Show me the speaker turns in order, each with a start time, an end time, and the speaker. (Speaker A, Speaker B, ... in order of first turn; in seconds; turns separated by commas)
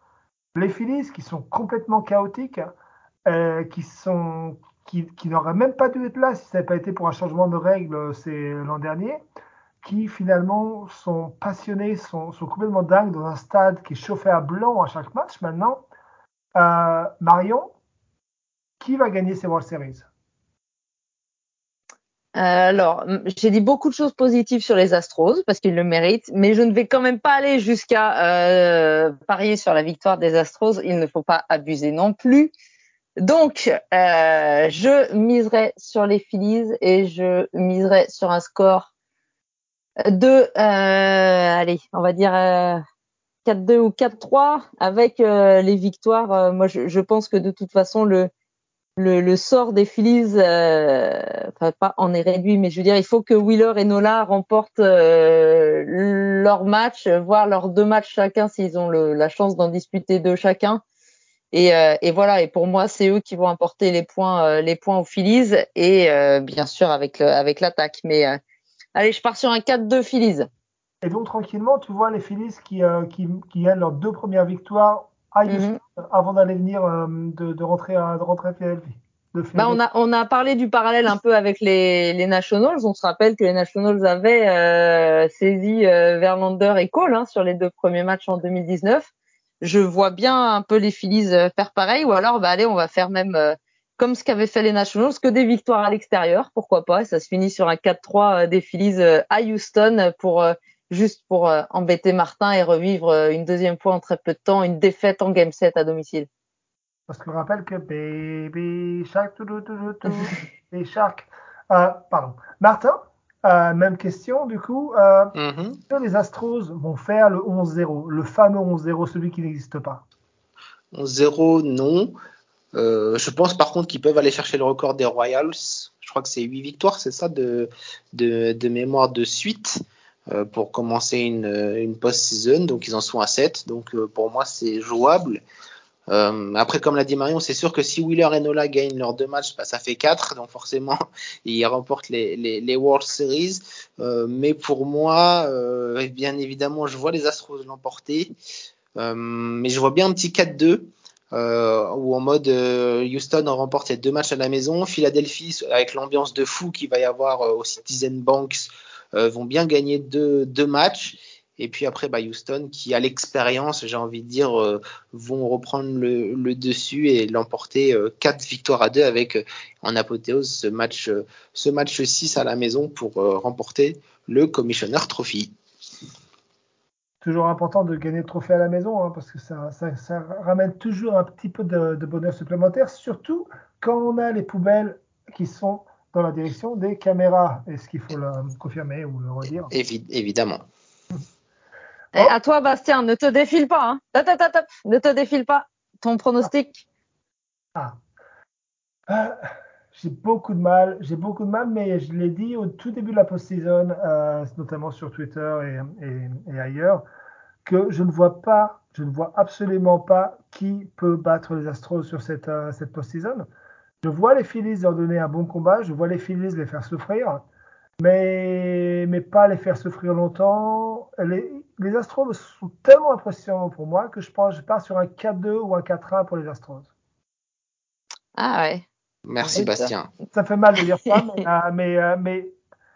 Speaker A: 0.5-2.7, Speaker A: 3.2-9.2, Speaker A: 9.8-15.8, Speaker A: 16.5-17.7, Speaker A: 18.8-20.1, Speaker B: 22.3-32.5, Speaker B: 33.2-38.9, Speaker B: 40.0-42.8, Speaker B: 43.4-48.3, Speaker B: 49.0-60.8, Speaker B: 61.5-68.4, Speaker B: 68.9-70.5, Speaker A: 71.0-79.8, Speaker B: 75.5-75.8, Speaker B: 79.5-89.1, Speaker B: 89.6-106.3, Speaker A: 107.1-115.3, Speaker C: 115.3-115.8, Speaker A: 115.9-120.0, Speaker C: 120.9-122.1, Speaker C: 122.7-135.4, Speaker C: 136.1-148.3, Speaker C: 148.9-175.5, Speaker A: 177.2-189.7, Speaker C: 189.7-190.6, Speaker B: 192.1-196.8, Speaker A: 199.1-207.0, Speaker A: 207.6-213.5, Speaker A: 214.0-217.4, Speaker A: 218.0-226.9, Speaker B: 228.3-228.8, Speaker C: 229.2-230.1, Speaker B: 229.5-229.9, Speaker A: 230.3-232.5, Speaker B: 231.1-231.4